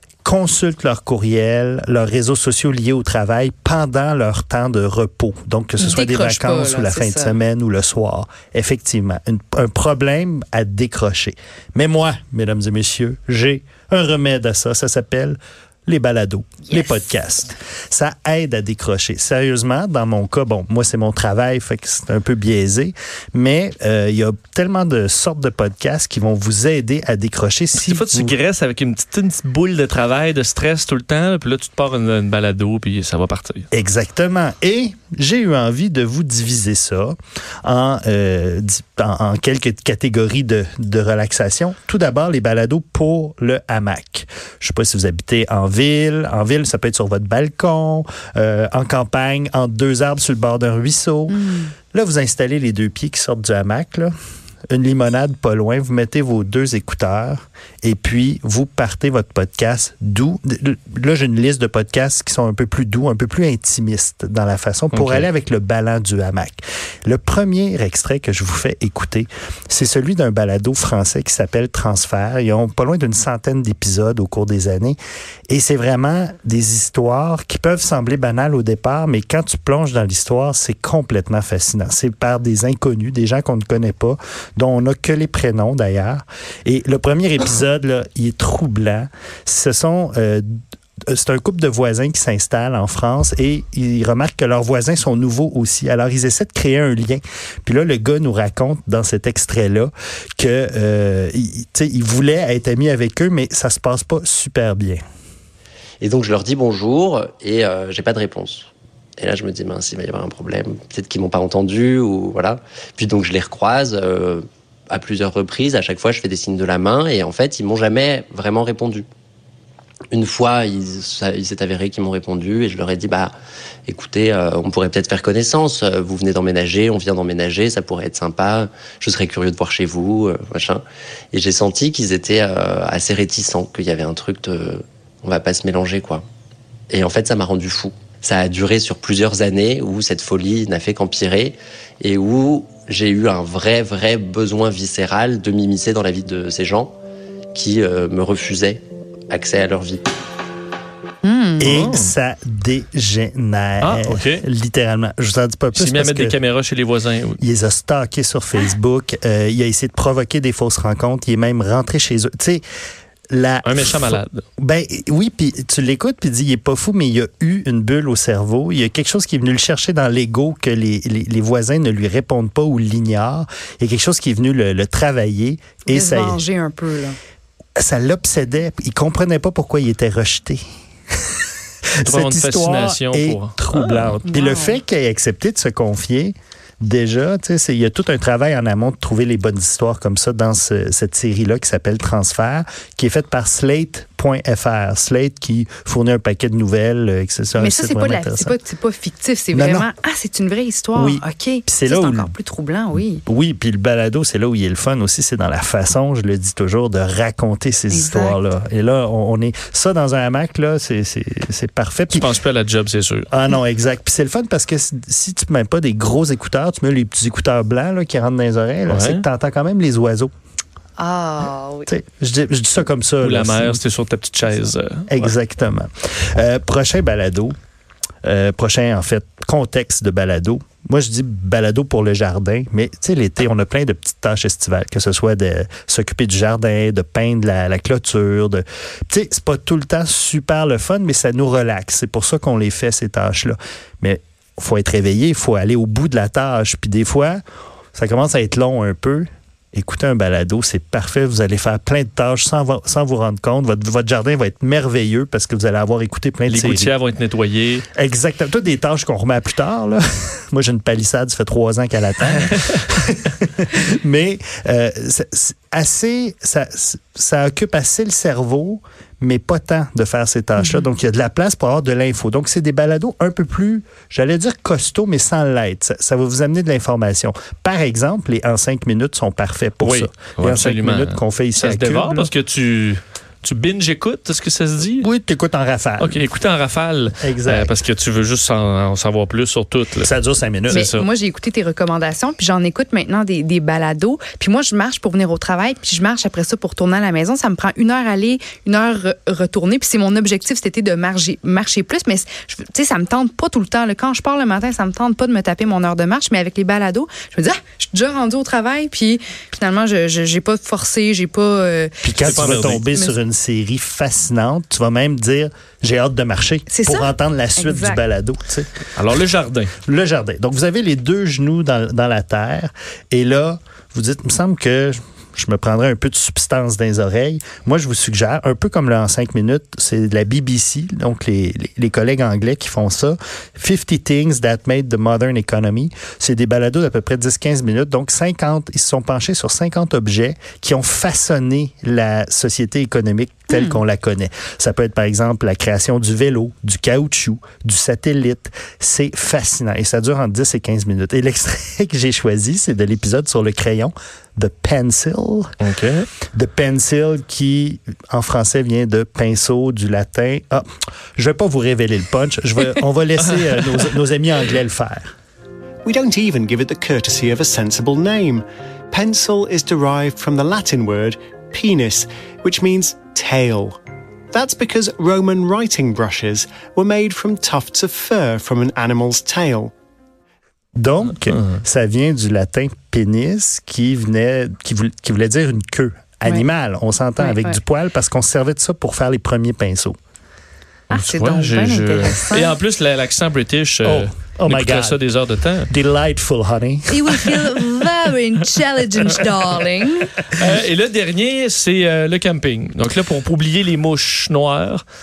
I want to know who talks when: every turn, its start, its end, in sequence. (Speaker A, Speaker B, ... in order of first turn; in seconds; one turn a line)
Speaker A: 0.2-28.3
Speaker B: 5.8-7.4
Speaker C: 27.8-33.7
Speaker A: 33.7-51.4
Speaker B: 51.3-51.7
Speaker A: 51.9-54.1
Speaker A: 54.7-75.0
Speaker C: 64.9-65.2
Speaker A: 75.5-90.5
Speaker A: 91.1-105.0
Speaker D: 106.0-119.0
Speaker D: 120.1-123.3
Speaker D: 123.9-136.2
Speaker D: 136.9-146.9
Speaker D: 147.5-150.0
Speaker B: 151.2-151.7
Speaker A: 151.6-156.4
Speaker C: 151.6-152.1
Speaker C: 153.8-154.4
Speaker C: 155.7-157.4
Speaker A: 157.4-162.6
Speaker A: 163.3-176.4
Speaker C: 163.6-164.4
Speaker B: 175.9-177.2
Speaker A: 177.8-180.6
Speaker A: 182.0-198.6
Speaker C: 182.0-184.2
Speaker B: 184.2-184.8
Speaker B: 197.6-203.2
Speaker A: 199.5-199.9
Speaker A: 200.9-202.3
Speaker A: 203.2-212.3
Speaker B: 207.9-208.4
Speaker C: 212.1-213.3
Speaker A: 213.3-220.3
Speaker C: 218.9-219.2
Speaker B: 221.0-221.9
Speaker A: 221.9-223.8
Speaker C: 223.2-225.3
Speaker A: 225.1-227.5
Speaker A: 228.2-247.4
Speaker A: 247.9-256.9
Speaker C: 256.5-257.8
Speaker A: 257.9-282.3
Speaker C: 279.8-285.1
Speaker A: 285.0-286.2
Speaker C: 286.0-290.1
Speaker A: 287.2-287.7
Speaker A: 290.0-290.9
Speaker C: 290.7-291.1
Speaker B: 290.7-313.1
Speaker A: 312.0-318.7
Speaker C: 312.1-312.8
Speaker B: 316.7-318.0
Speaker C: 318.9-319.7
Speaker A: 319.9-355.5
Speaker B: 343.5-343.8
Speaker C: 355.6-356.1
Speaker A: 356.3-365.1
Speaker E: 365.8-373.8
Speaker E: 374.3-379.7
Speaker A: 380.8-389.9
Speaker B: 387.2-387.6
Speaker B: 390.9-392.6
Speaker C: 390.9-395.7
Speaker A: 393.8-395.0
Speaker A: 395.7-397.6
Speaker B: 396.9-400.1
Speaker C: 400.3-404.8